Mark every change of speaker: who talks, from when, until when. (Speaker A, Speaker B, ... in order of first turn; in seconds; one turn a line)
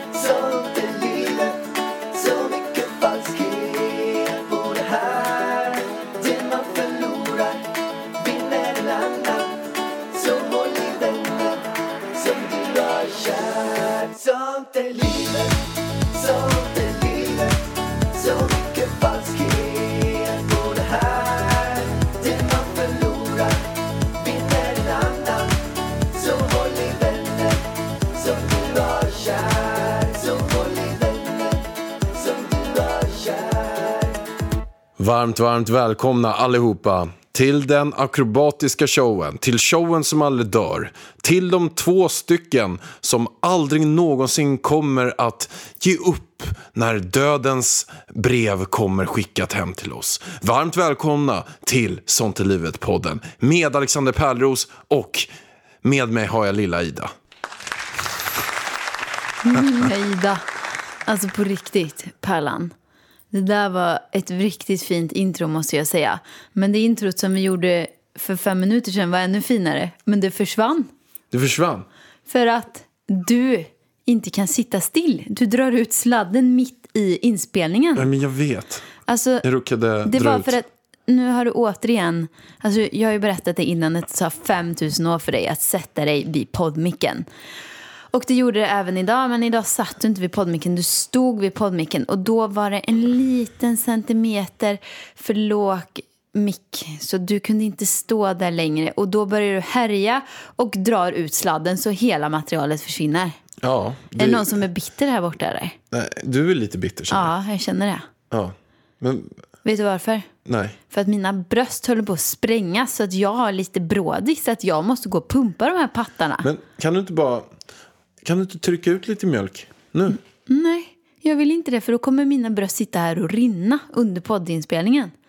Speaker A: 0.1-1.6
Speaker A: 2.1-7.6
Speaker A: 8.2-9.6
Speaker A: 10.1-15.6
Speaker A: 16.1-17.6
Speaker A: 18.1-23.6
Speaker A: 24.2-25.5
Speaker A: 26.1-34.2
Speaker B: 35.0-55.3
Speaker B: 55.8-57.1
Speaker C: 59.4-60.4
Speaker C: 61.0-62.7
Speaker C: 63.3-70.9
Speaker B: 71.3-71.9
Speaker C: 72.3-78.1
Speaker B: 78.0-78.8
Speaker C: 79.1-79.5
Speaker B: 79.4-80.5
Speaker C: 80.0-87.2
Speaker C: 88.1-103.3
Speaker B: 103.6-104.6
Speaker C: 104.2-105.8
Speaker B: 105.9-107.3
Speaker C: 107.1-108.0
Speaker B: 108.3-109.4
Speaker C: 109.6-110.3
Speaker B: 110.5-110.8
Speaker C: 110.9-116.5
Speaker B: 116.4-117.5
Speaker B: 118.2-120.2
Speaker C: 120.5-125.1